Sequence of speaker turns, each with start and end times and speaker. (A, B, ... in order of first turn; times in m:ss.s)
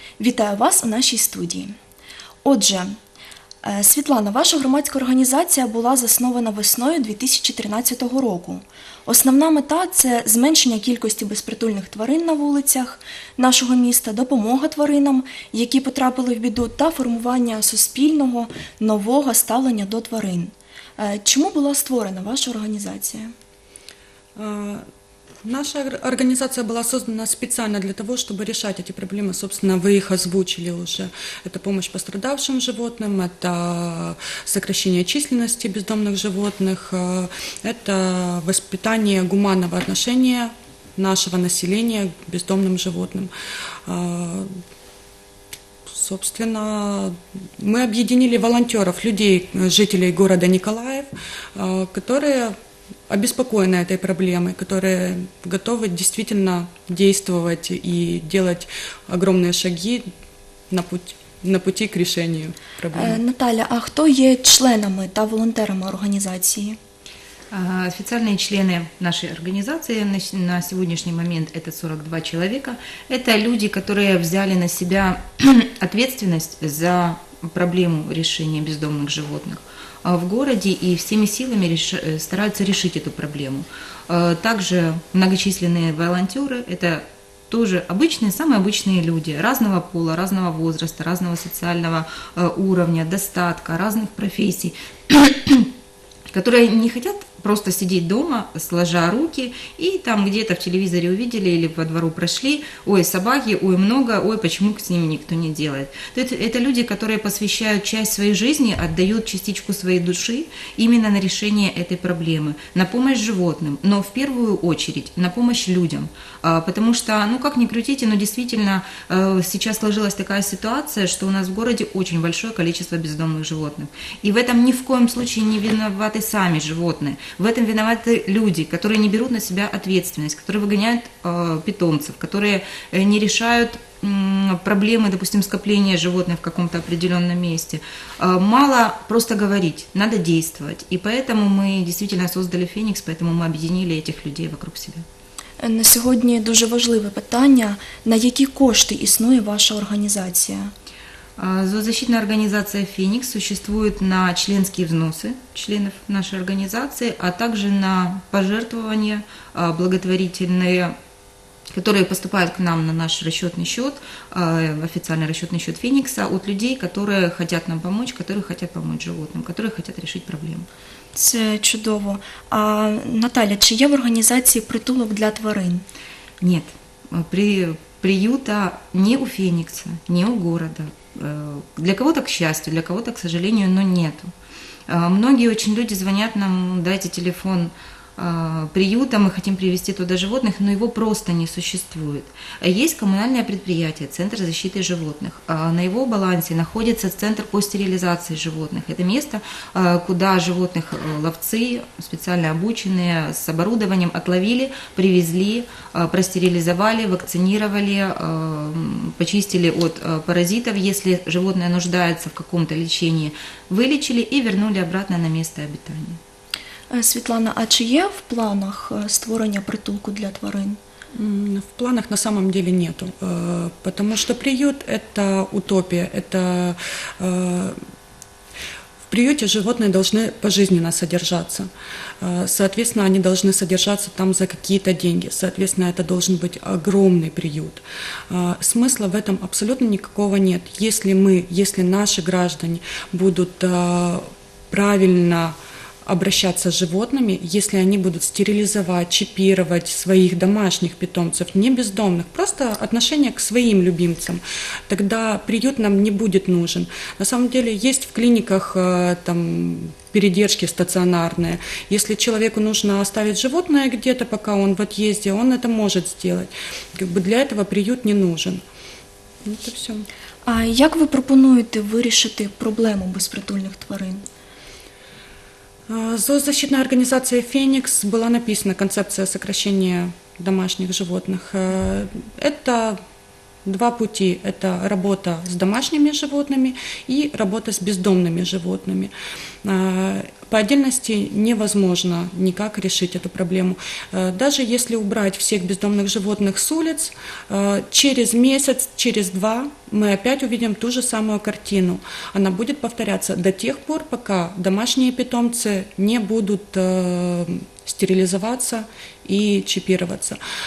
0:00.2-0:01.7 A
0:02.4-0:03.0 A
0:03.6-0:23.3 A
0:24.4-0:24.8 B
0:25.4-0:43.3 B
0:43.9-0:44.5 B
0:45.9-0:52.6 B
0:53.1-1:00.1 B
1:00.7-1:03.2 B
1:02.9-1:06.8 A
1:07.5-1:35.7 C
1:36.3-2:25.0 C
2:25.6-2:30.7 A
2:31.4-2:41.0 C
2:41.7-2:50.7 C
2:51.1-2:55.8 A
2:56.4-3:04.3 C
3:04.9-3:36.2 C
3:36.9-3:40.8 A
3:41.2-3:47.8 B
3:49.1-3:51.7 B
3:52.2-4:28.6 B
4:29.4-4:30.1 B
4:30.5-4:34.2 A
4:35.9-4:43.0 B
4:43.7-4:49.1 B
4:49.6-5:10.4 B